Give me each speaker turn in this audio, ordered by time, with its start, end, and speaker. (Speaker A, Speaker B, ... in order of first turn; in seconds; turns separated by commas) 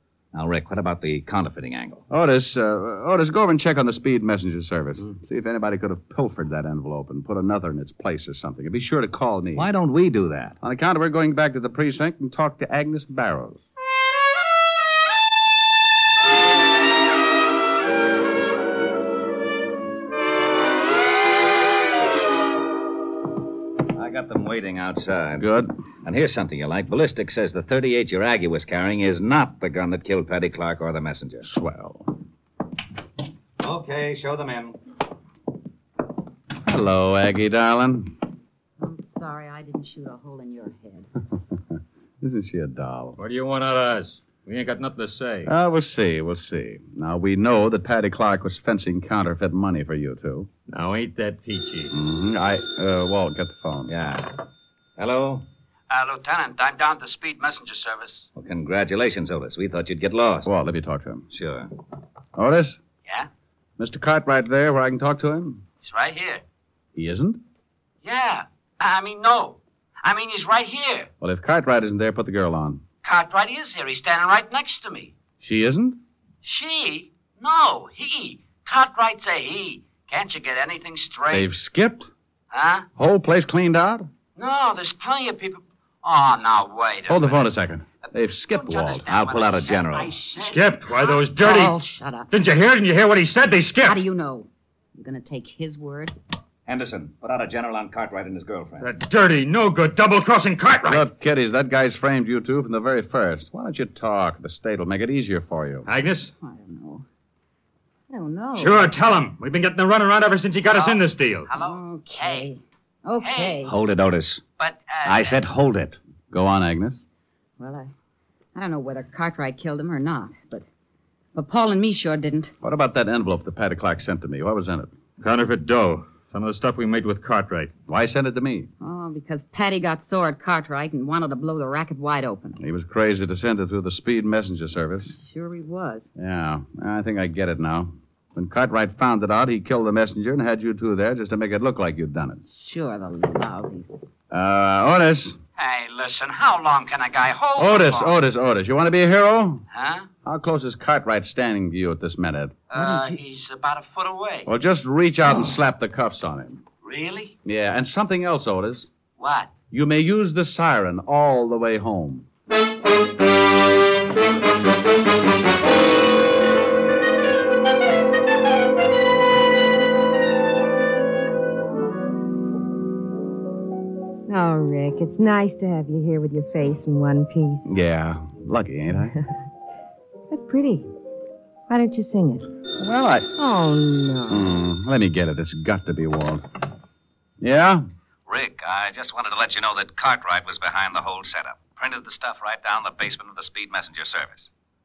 Speaker A: 0.3-2.0, Speaker B: 2.1-9.7, Speaker A: 9.6-10.6, Speaker B: 10.6-13.6, Speaker A: 23.9-25.5, Speaker B: 25.4-25.7, Speaker A: 26.0-31.5, Speaker B: 31.4-32.1, Speaker A: 33.6-34.8, Speaker B: 36.6-38.2, Speaker C: 38.8-41.1, Speaker B: 41.5-43.2, Speaker D: 43.2-45.5, Speaker B: 45.5-50.5, Speaker D: 50.7-51.9, Speaker B: 51.9-53.9, Speaker A: 53.9-54.4, Speaker A: 55.0-55.5, Speaker E: 55.9-58.3, Speaker A: 58.4-60.5, Speaker B: 60.5-61.3, Speaker A: 61.3-61.7, Speaker B: 62.4-62.8, Speaker B: 63.8-65.6, Speaker E: 65.8-66.4, Speaker B: 67.0-67.4, Speaker E: 68.0-71.1, Speaker B: 71.2-72.8, Speaker E: 73.0-75.2, Speaker B: 75.4-76.0, Speaker E: 76.4-81.5, Speaker B: 81.3-82.1, Speaker E: 82.5-82.9, Speaker B: 83.0-84.1, Speaker E: 84.4-87.4, Speaker B: 87.1-89.1, Speaker E: 88.5-91.2, Speaker A: 89.1-90.2, Speaker D: 90.4-91.8, Speaker C: 91.3-92.3, Speaker D: 92.3-94.0, Speaker C: 93.8-96.2, Speaker A: 96.7-98.9, Speaker D: 98.8-101.1, Speaker B: 100.9-105.9, Speaker D: 105.9-106.3, Speaker C: 106.4-107.1, Speaker C: 108.1-109.0, Speaker D: 108.5-111.5, Speaker E: 110.7-112.5, Speaker C: 111.5-113.7, Speaker E: 113.2-113.7, Speaker A: 113.7-114.4, Speaker E: 114.6-115.4, Speaker A: 115.0-116.0, Speaker B: 116.3-117.0, Speaker C: 117.6-117.9, Speaker C: 118.5-120.7, Speaker C: 121.3-122.5, Speaker B: 122.6-124.9, Speaker D: 125.2-127.7, Speaker B: 127.9-128.7, Speaker C: 128.8-132.6, Speaker B: 132.6-135.2, Speaker C: 135.2-136.1, Speaker B: 136.2-142.4, Speaker C: 142.5-144.0, Speaker B: 144.3-145.4, Speaker E: 145.6-148.2, Speaker B: 147.6-149.7, Speaker E: 149.7-150.1, Speaker B: 150.2-152.6, Speaker E: 152.7-154.5, Speaker B: 154.5-156.6, Speaker E: 156.8-157.4, Speaker B: 157.4-158.9, Speaker E: 159.2-159.6, Speaker B: 159.7-162.3, Speaker F: 174.3-177.6, Speaker B: 177.7-179.1, Speaker F: 180.3-180.9, Speaker F: 181.7-182.5, Speaker B: 182.8-183.3, Speaker F: 183.3-184.5, Speaker B: 184.3-186.4, Speaker B: 187.4-187.8, Speaker A: 188.3-194.5